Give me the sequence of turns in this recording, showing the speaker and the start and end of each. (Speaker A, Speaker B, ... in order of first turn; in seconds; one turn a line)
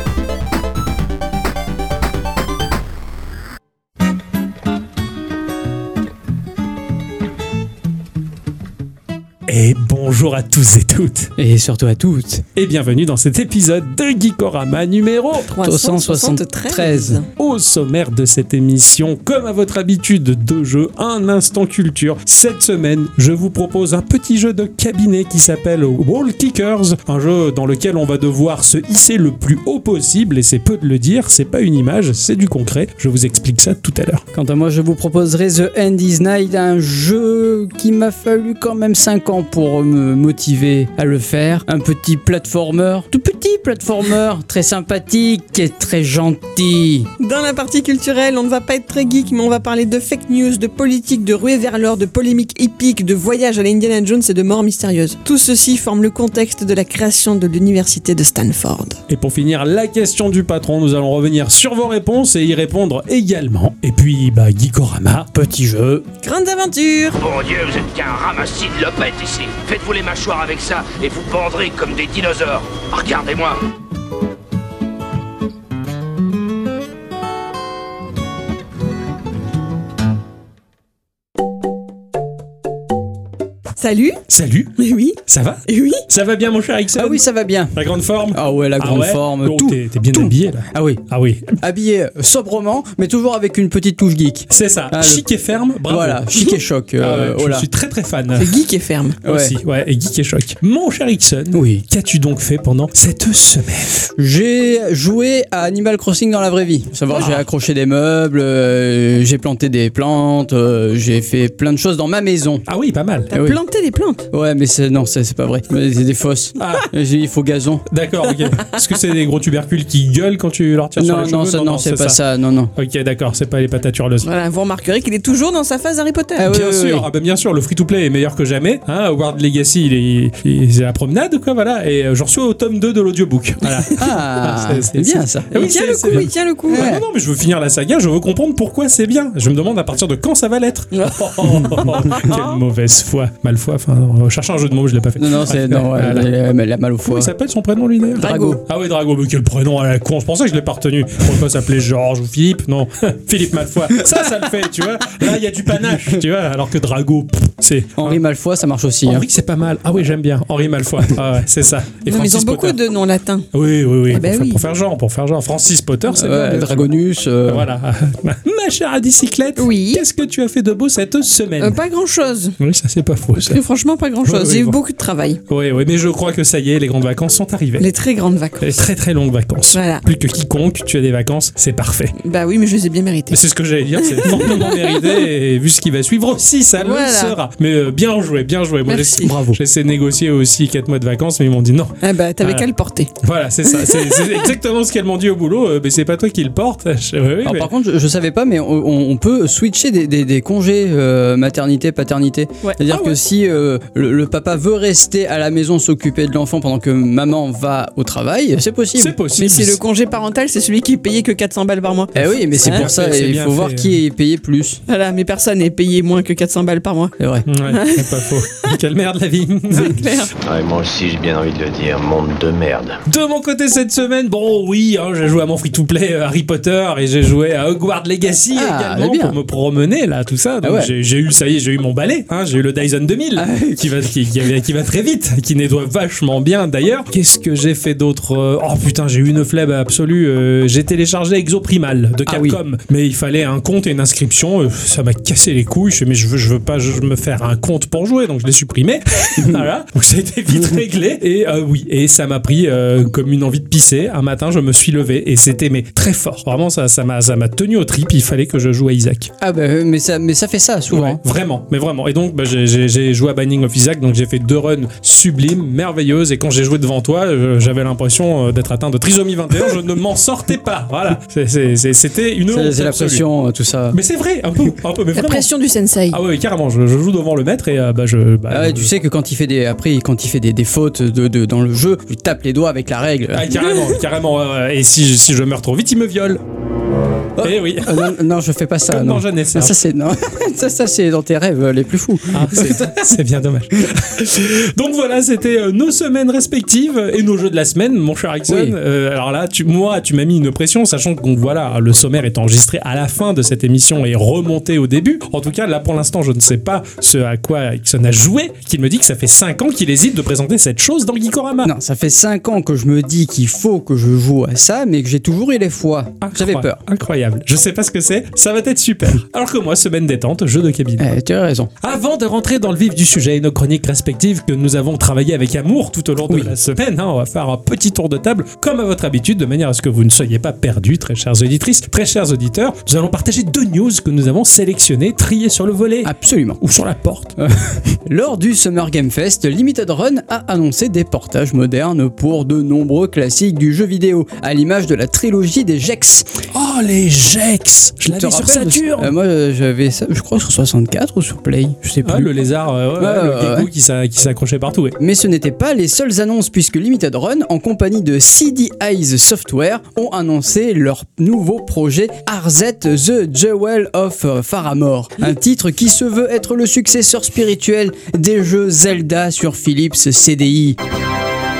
Speaker A: 9.5-11.3
Speaker B: 11.4-12.4
Speaker A: 12.6-15.5
Speaker C: 15.5-17.3
Speaker B: 15.6-17.2
Speaker A: 17.4-34.2
Speaker B: 34.3-47.1
Speaker C: 47.2-59.0
Speaker A: 59.1-65.5
Speaker B: 65.4-66.0
Speaker C: 66.2-67.2
Speaker D: 67.2-73.6
Speaker C: 83.8-84.2
Speaker A: 84.3-84.7
Speaker C: 84.8-86.0
Speaker A: 85.3-87.2
Speaker B: 86.9-87.8
Speaker A: 87.7-91.5
Speaker B: 88.3-91.0
Speaker B: 91.6-95.2
Speaker A: 94.5-96.4
Speaker B: 95.9-97.7
Speaker A: 97.0-98.5
Speaker C: 98.4-99.2
Speaker B: 99.2-99.5
Speaker A: 99.2-104.1
Speaker B: 101.5-101.8
Speaker B: 104.2-112.6
Speaker A: 107.2-107.4
Speaker A: 112.7-113.3
Speaker C: 113.3-114.3
Speaker B: 113.3-113.6
Speaker B: 114.3-117.8
Speaker A: 116.6-116.9
Speaker A: 117.9-122.2
Speaker B: 121.0-122.7
Speaker A: 122.7-124.3
Speaker C: 124.2-126.5
Speaker B: 126.4-127.1
Speaker A: 126.5-146.3
Speaker B: 134.0-135.7
Speaker C: 135.5-136.9
Speaker B: 136.7-137.0
Speaker C: 140.9-142.6
Speaker B: 145.2-147.3
Speaker A: 147.0-158.2
Speaker B: 148.2-148.6
Speaker C: 148.2-148.6
Speaker B: 158.0-159.2
Speaker A: 159.0-162.8
Speaker C: 162.1-163.5
Speaker A: 163.5-166.9
Speaker C: 164.1-164.6
Speaker B: 166.1-167.7
Speaker A: 167.4-171.8
Speaker C: 169.6-170.0
Speaker C: 171.6-172.6
Speaker A: 172.6-173.6
Speaker C: 173.4-175.4
Speaker A: 174.2-174.8
Speaker A: 175.5-177.9
Speaker C: 177.8-178.8
Speaker A: 178.6-182.1
Speaker C: 179.7-180.0
Speaker C: 182.2-183.4
Speaker A: 183.3-192.7
Speaker C: 184.0-185.2
Speaker C: 186.8-187.4
Speaker C: 188.8-189.6
Speaker C: 192.0-193.1
Speaker A: 193.2-197.7
Speaker C: 193.7-194.4
Speaker B: 197.4-209.1
Speaker C: 202.6-203.2
Speaker A: 209.0-209.8
Speaker C: 209.4-212.8
Speaker B: 212.1-214.8
Speaker A: 212.5-214.0
Speaker C: 214.9-217.1
Speaker B: 217.2-217.4
Speaker A: 217.4-220.1
Speaker C: 217.7-218.8
Speaker C: 219.7-220.3
Speaker E: 220.4-223.0
Speaker A: 223.1-259.3
Speaker B: 228.5-229.3
Speaker B: 230.6-230.9
Speaker B: 233.3-233.8
Speaker B: 242.3-242.6
Speaker B: 259.4-261.2
Speaker A: 260.9-273.2
Speaker B: 272.5-274.0
Speaker A: 273.9-275.5
Speaker C: 275.1-276.2
Speaker A: 276.1-278.9
Speaker B: 278.5-283.5
Speaker A: 283.3-286.4
Speaker C: 283.6-284.0
Speaker B: 287.4-292.9
Speaker A: 287.4-288.2
Speaker A: 288.9-289.8
Speaker A: 292.3-311.7
Speaker B: 298.5-298.7
Speaker B: 311.6-316.8
Speaker A: 316.2-321.1
Speaker B: 321.0-321.7
Speaker A: 321.8-337.3
Speaker B: 336.0-336.6
Speaker B: 337.4-346.3
Speaker A: 346.5-349.1
Speaker B: 348.1-352.3
Speaker A: 352.0-355.0
Speaker B: 353.0-353.7
Speaker B: 355.0-370.8